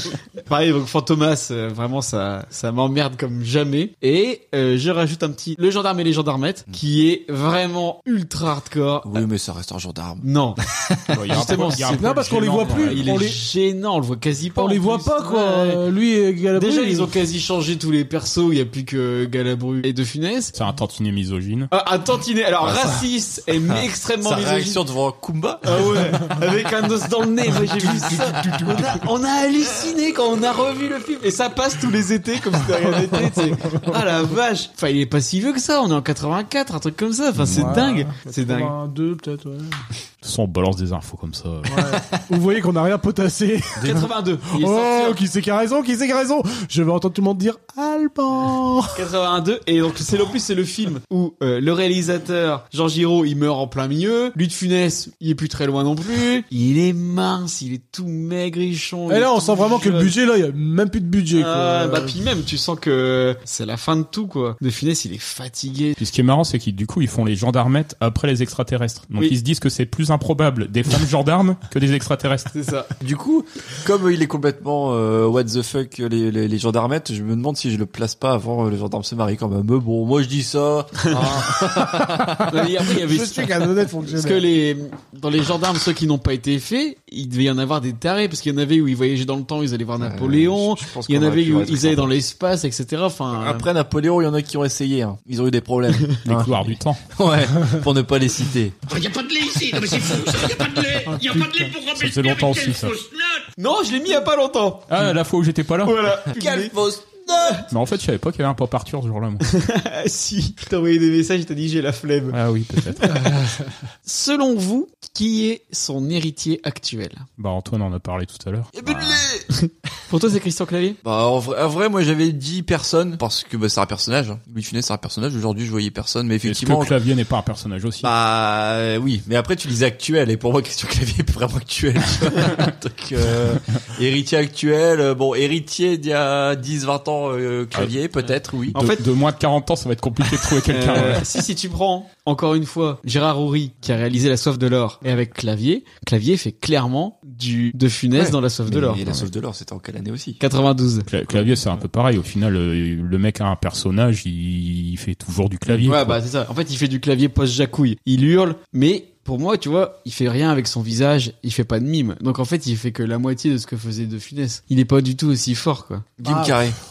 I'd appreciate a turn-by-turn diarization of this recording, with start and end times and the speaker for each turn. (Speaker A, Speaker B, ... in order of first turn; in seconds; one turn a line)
Speaker A: 0.4-9.2
Speaker B: 9.0-11.2
Speaker A: 10.2-10.6
Speaker C: 11.1-13.1
Speaker A: 11.3-15.8
Speaker D: 12.0-13.4
Speaker D: 14.5-17.1
Speaker A: 16.5-20.5
Speaker C: 20.5-21.7
Speaker A: 21.7-24.8
Speaker B: 23.7-26.0
Speaker A: 25.6-38.7
Speaker D: 27.9-29.0
Speaker B: 28.0-28.6
Speaker D: 33.2-34.0
Speaker C: 37.4-37.8
Speaker D: 37.5-39.8
Speaker C: 40.2-42.0
Speaker D: 41.7-49.0
Speaker A: 43.8-45.2
Speaker A: 49.0-60.1
Speaker D: 59.1-62.1
Speaker A: 61.3-66.0
Speaker C: 66.0-72.5
Speaker A: 72.5-72.9
Speaker B: 73.0-82.6
Speaker D: 81.7-84.5
Speaker A: 82.5-93.7
Speaker B: 90.0-92.2
Speaker B: 93.3-98.9
Speaker C: 96.2-97.0
Speaker E: 98.9-103.4
Speaker B: 99.7-100.9
Speaker D: 101.1-101.7
Speaker C: 101.9-103.0
Speaker A: 103.6-104.9
Speaker C: 104.9-106.0
Speaker A: 105.8-106.7
Speaker B: 106.3-107.7
Speaker C: 107.7-109.5
Speaker A: 109.5-112.4
Speaker C: 112.3-113.2
Speaker A: 113.0-113.3
Speaker A: 114.0-117.3
Speaker C: 117.4-119.2
Speaker B: 118.8-119.5
Speaker A: 119.6-121.0
Speaker B: 121.0-127.0
Speaker C: 126.4-128.1
Speaker B: 128.0-138.8
Speaker C: 138.7-141.3
Speaker A: 138.7-139.0
Speaker A: 140.7-149.3
Speaker B: 148.2-150.4
Speaker A: 150.4-151.1
Speaker C: 151.1-156.2
Speaker B: 151.3-151.7
Speaker A: 155.8-166.5
Speaker B: 166.2-166.8